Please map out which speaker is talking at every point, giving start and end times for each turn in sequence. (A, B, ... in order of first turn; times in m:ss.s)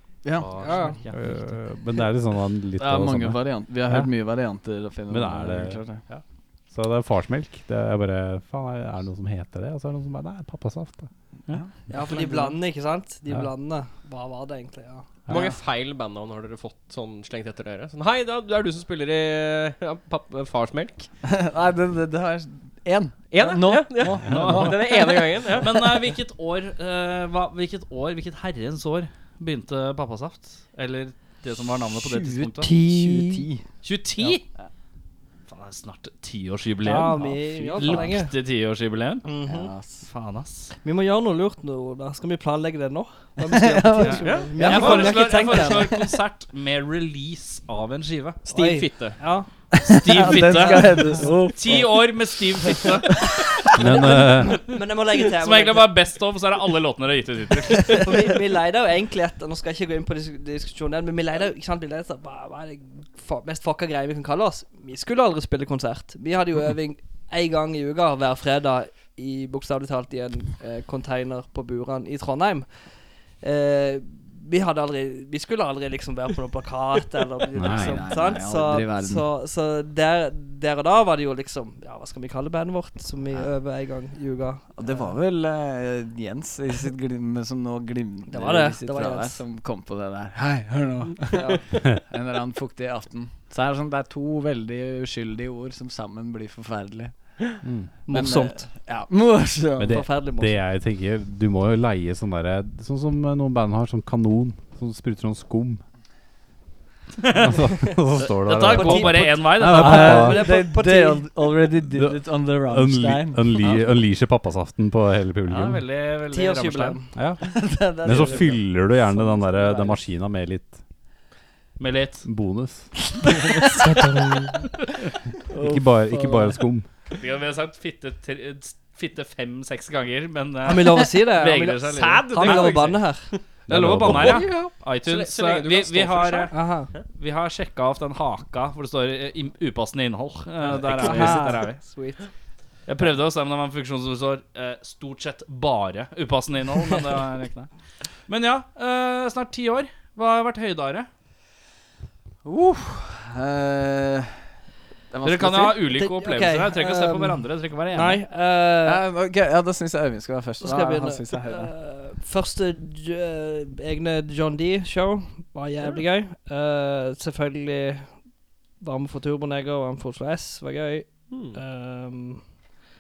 0:00.2-0:00.8 A
0:00.4-0:01.6 B
0:00.6-0:01.0 C
0:01.1-0:04.1 D
0:02.8-0:06.0 A
0:05.1-0:11.1 D
0:11.5-0:12.6 A
0:11.9-0:15.1 C
0:15.3-0:15.5 D
0:15.3-0:21.1 E
0:21.2-0:25.0 A
0:23.3-0:25.8 E
0:24.0-0:32.7 B
0:24.2-0:24.7 D
0:32.0-0:33.6 A
0:32.7-0:33.5 C
0:33.8-0:34.4 B
0:34.2-0:34.7 A
0:35.5-0:39.2 B
0:36.8-0:38.3 C
0:37.1-0:38.1 A
0:39.2-0:39.7 C
0:39.4-0:40.1 A
0:40.1-0:40.7 B
0:40.8-0:45.9 C
0:43.4-0:46.1 A
0:44.0-0:48.4 B
0:44.2-0:45.0 E
0:48.4-0:49.2 E
0:48.5-0:49.5 C
0:49.7-0:52.1 A
0:49.9-0:53.3 B
0:50.5-0:51.3 C
0:52.6-0:53.4 A
0:53.8-0:54.6 D
0:53.8-0:55.9 C
0:55.2-0:58.1 B
0:57.9-1:12.7 C
1:13.4-1:25.1 C
1:17.6-1:19.2 A
1:17.6-1:18.0 D
1:24.7-1:37.1 A
1:28.3-1:29.4 C
1:31.3-1:31.6 C
1:37.6-1:37.9 D
1:38.1-1:38.7 C
1:38.1-1:40.0 A
1:39.8-1:45.8 D
1:39.9-1:40.6 C
1:47.2-1:47.6 B
1:47.4-1:50.4 D
1:48.3-1:50.3 B
1:48.7-1:51.4 C
1:49.6-1:53.6 A
1:51.8-1:55.8 D
1:55.4-1:57.0 B
1:56.3-1:57.3 C
1:57.2-2:00.8 D
1:57.4-1:59.9 A
1:58.1-1:58.4 C
2:01.8-2:02.2 B
2:02.2-2:02.9 D
2:03.6-2:03.9 A
2:03.8-2:04.5 C
2:05.5-2:06.6 A
2:05.6-2:06.9 D
2:07.1-2:13.0 B
2:10.6-2:13.3 C
2:12.2-2:13.4 E
2:13.7-2:14.4 D
2:13.7-2:16.5 B
2:14.0-2:17.0 E
2:16.5-2:16.9 C
2:17.0-2:21.8 B
2:20.7-2:22.3 C
2:22.9-2:27.7 B
2:28.3-2:31.1 B
2:32.4-2:34.4 A
2:35.1-2:35.8 A
2:35.2-2:38.2 B
2:35.9-2:39.0 C
2:38.8-2:41.7 A
2:40.6-2:48.1 C
2:48.8-2:52.4 C
2:51.3-2:51.6 E